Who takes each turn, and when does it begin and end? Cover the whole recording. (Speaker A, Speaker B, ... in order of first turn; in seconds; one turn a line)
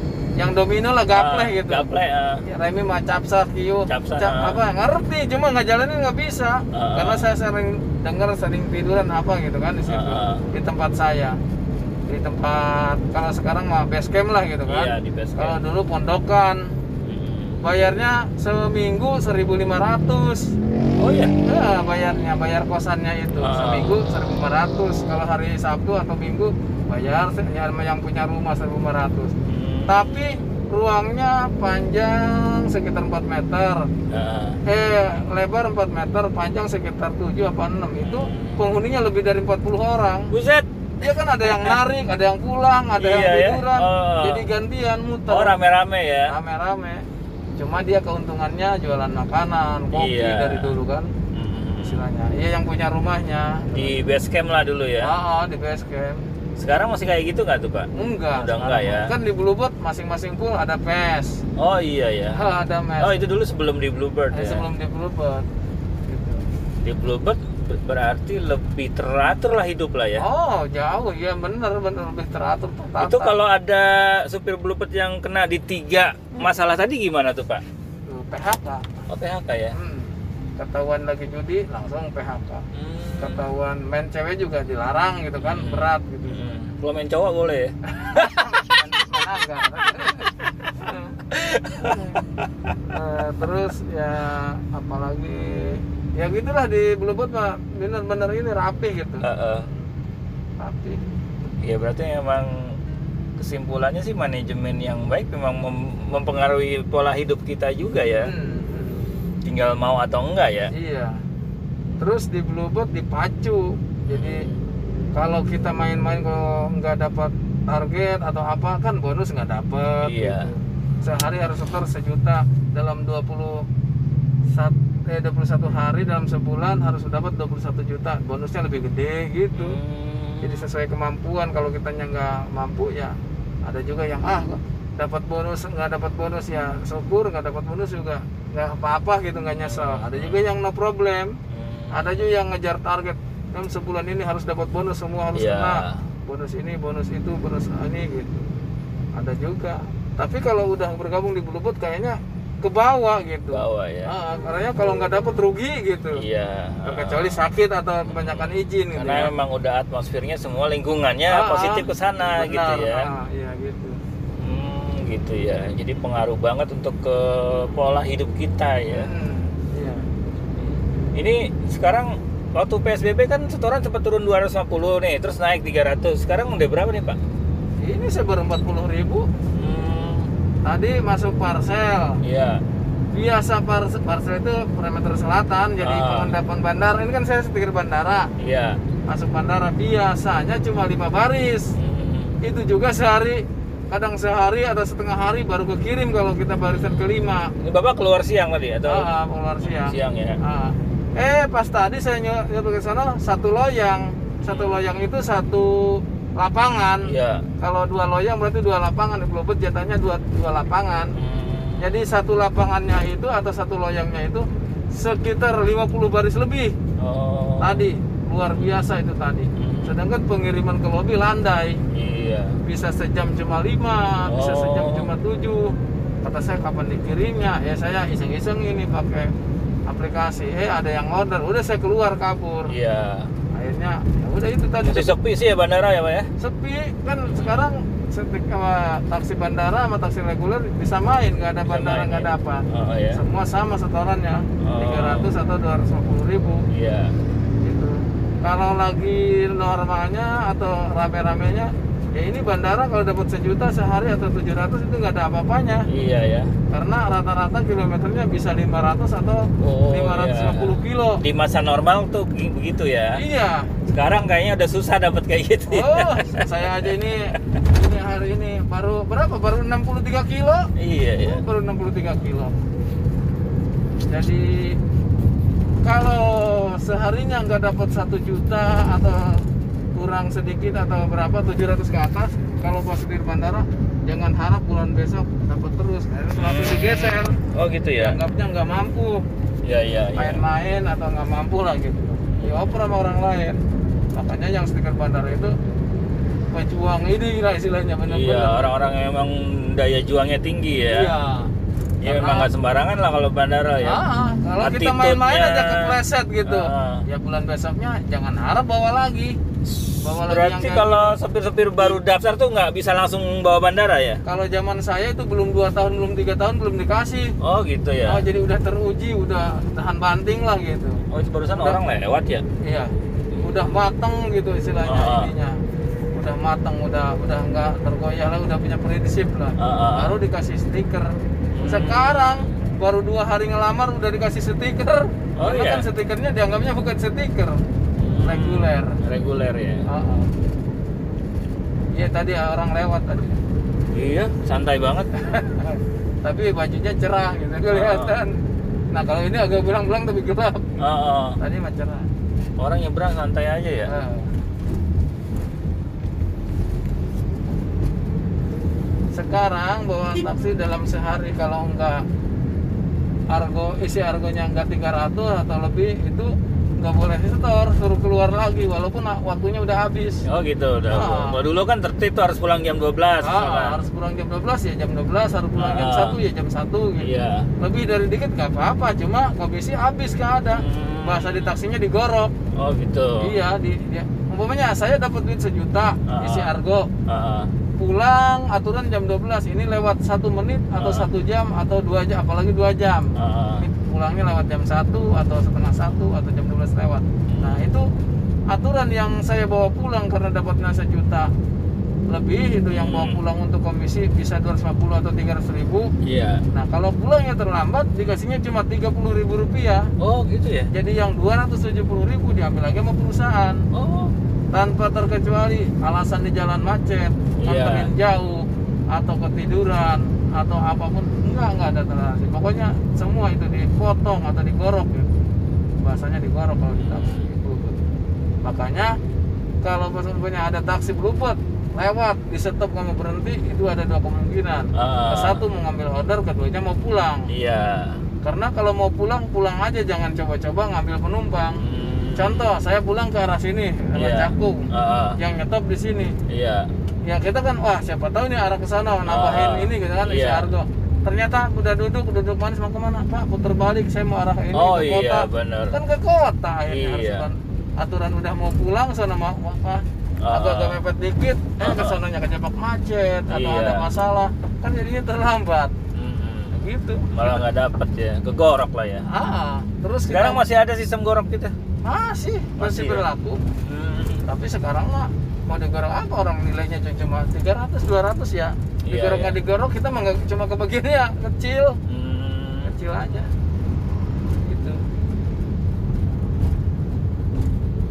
Speaker A: 0.4-1.9
Speaker B: 1.1-2.4
Speaker A: 2.5-11.4
Speaker B: 3.9-4.6
Speaker B: 6.7-7.3
Speaker B: 9.9-10.5
Speaker A: 12.1-16.8
Speaker B: 14.7-15.6
Speaker B: 17.0-17.6
Speaker A: 17.6-20.6
Speaker B: 21.0-21.4
Speaker A: 21.5-29.3
Speaker B: 23.4-24.0
Speaker B: 29.5-30.4
Speaker A: 29.9-33.9
Speaker B: 34.1-34.6
Speaker A: 34.7-40.3
Speaker B: 38.0-38.6
Speaker B: 40.3-40.7
Speaker A: 41.0-45.6
Speaker B: 41.4-41.8
Speaker B: 43.0-44.5
Speaker B: 45.3-46.3
Speaker A: 46.3-47.0
Speaker A: 47.6-51.1
Speaker B: 49.9-50.8
Speaker B: 51.3-52.1
Speaker A: 51.8-54.0
Speaker B: 53.8-55.1
Speaker A: 55.0-56.2
Speaker B: 56.6-59.1
Speaker A: 57.9-61.4
Speaker B: 61.6-62.4
Speaker A: 62.3-63.2
Speaker B: 63.0-64.7
Speaker A: 64.3-65.5
Speaker A: 66.1-66.4
Speaker B: 66.8-70.2
Speaker A: 70.2-73.3
Speaker B: 73.0-77.6
Speaker A: 78.1-79.0
Speaker B: 79.1-79.7
Speaker A: 79.7-82.6
Speaker B: 82.7-83.4
Speaker A: 83.2-86.5
Speaker B: 85.4-88.3
Speaker A: 87.9-92.2
Speaker B: 91.3-92.7
Speaker A: 92.9-99.2
Speaker B: 99.2-99.7
Speaker A: 100.6-101.0
Speaker B: 101.6-102.8
Speaker B: 103.4-108.3
Speaker A: 108.2-109.1
Speaker B: 109.5-110.7
Speaker A: 110.7-111.2
Speaker A: 112.0-114.5
Speaker B: 114.1-114.6
Speaker A: 115.2-123.7
Speaker B: 120.0-120.5
Speaker A: 124.5-129.8
Speaker B: 129.5-130.7
Speaker A: 130.4-141.3
Speaker B: 139.6-140.5
Speaker B: 141.5-142.3
Speaker A: 141.9-148.5
Speaker B: 145.3-146.0
Speaker A: 149.2-156.2
Speaker B: 153.5-154.1
Speaker B: 156.2-157.4
Speaker A: 156.8-159.3
Speaker B: 158.1-163.1
Speaker A: 161.3-164.0
Speaker B: 164.4-169.1
Speaker A: 168.9-170.1
Speaker B: 170.6-177.2
Speaker A: 177.8-179.3
Speaker B: 179.5-180.3
Speaker A: 180.7-182.2
Speaker B: 182.2-182.6
Speaker A: 183.1-188.3
Speaker B: 185.8-186.4
Speaker B: 188.4-188.8
Speaker A: 189.1-191.8
Speaker B: 191.8-192.4
Speaker A: 192.4-197.5
Speaker B: 196.7-197.1
Speaker B: 197.6-199.1
Speaker A: 198.9-211.2
Speaker B: 199.6-200.4
Speaker B: 204.4-205.1
Speaker B: 207.1-207.5
Speaker B: 211.2-212.0
Speaker A: 211.8-216.8
Speaker B: 217.0-217.9
Speaker A: 217.6-221.8
Speaker B: 219.6-220.0
Speaker B: 221.9-222.6
Speaker A: 222.6-229.3
Speaker B: 224.3-225.1
Speaker A: 229.9-232.7
Speaker B: 232.7-233.3
Speaker A: 233.5-235.1
Speaker B: 234.8-236.3
Speaker A: 236.4-246.6
Speaker B: 237.3-237.7
Speaker B: 241.6-243.2
Speaker B: 244.6-245.3
Speaker B: 246.7-247.1
Speaker A: 247.6-255.9
Speaker B: 255.9-256.5
Speaker A: 256.7-261.2
Speaker B: 259.6-263.2
Speaker A: 263.1-263.7
Speaker B: 263.9-267.3
Speaker A: 265.7-272.6
Speaker B: 270.8-271.4
Speaker A: 274.1-274.8
Speaker A: 275.8-279.4
Speaker A: 279.9-287.4
Speaker B: 286.4-288.2
Speaker A: 288.0-289.2
Speaker B: 289.6-290.4
Speaker A: 290.1-293.6
Speaker A: 294.1-295.5
Speaker A: 296.5-298.9
Speaker B: 298.1-301.1
Speaker A: 300.9-301.5
Speaker B: 302.0-304.0
Speaker A: 302.0-302.5
Speaker A: 303.8-309.4
Speaker B: 304.6-307.1
Speaker B: 309.6-314.2
Speaker A: 310.0-311.1
Speaker A: 314.2-317.3
Speaker B: 317.4-318.2
Speaker A: 318.1-321.0
Speaker B: 321.1-322.4
Speaker A: 321.6-321.8
Speaker A: 322.6-325.6
Speaker B: 323.3-323.6
Speaker B: 324.9-325.3
Speaker A: 326.1-337.6
Speaker B: 329.6-330.2
Speaker B: 331.5-332.6
Speaker B: 335.4-335.9
Speaker B: 338.0-339.9
Speaker A: 338.2-339.0
Speaker A: 339.9-340.3
Speaker A: 341.9-343.4
Speaker B: 343.9-345.1
Speaker A: 345.1-348.4
Speaker B: 347.7-348.1
Speaker A: 348.9-350.7
Speaker B: 350.8-351.4
Speaker A: 351.4-352.1
Speaker B: 352.6-353.9
Speaker A: 353.9-354.3
Speaker A: 359.1-362.1
Speaker A: 363.3-370.2
Speaker B: 370.2-373.8
Speaker A: 370.9-371.4
Speaker A: 373.2-382.3
Speaker B: 375.6-376.2
Speaker B: 377.0-377.5
Speaker B: 380.5-381.6
Speaker B: 382.6-383.4
Speaker A: 383.2-386.9
Speaker B: 386.1-386.5
Speaker B: 387.1-387.5
Speaker A: 387.8-397.9
Speaker B: 390.8-391.1
Speaker B: 393.2-393.6
Speaker B: 397.3-397.7
Speaker A: 398.5-401.3
Speaker A: 402.1-405.9
Speaker B: 402.8-403.2
Speaker B: 406.0-406.4
Speaker A: 406.5-409.9
Speaker B: 410.0-410.7
Speaker A: 410.7-413.6
Speaker B: 413.7-414.1
Speaker A: 414.5-425.1
Speaker B: 417.4-417.9
Speaker A: 425.8-427.8
Speaker B: 426.8-427.2
Speaker A: 428.4-428.9
Speaker A: 429.6-437.3
Speaker B: 434.8-435.4
Speaker B: 437.3-438.0
Speaker A: 438.2-441.6
Speaker B: 441.6-442.5
Speaker A: 442.1-446.1
Speaker B: 443.9-445.2
Speaker B: 446.3-446.7
Speaker A: 447.1-465.7
Speaker B: 449.1-450.5
Speaker B: 454.5-455.8
Speaker B: 456.7-457.3
Speaker B: 460.2-460.8
Speaker B: 461.6-462.0
Speaker B: 463.3-463.9
Speaker B: 465.9-466.5
Speaker A: 466.5-467.4
Speaker B: 467.1-469.1
Speaker A: 469.1-470.4
Speaker B: 470.1-471.6
Speaker A: 471.8-473.4
Speaker B: 472.6-473.1
Speaker B: 473.6-474.3
Speaker A: 474.3-481.8
Speaker B: 478.9-479.4
Speaker B: 481.9-482.8
Speaker A: 482.6-483.3
Speaker A: 484.4-484.8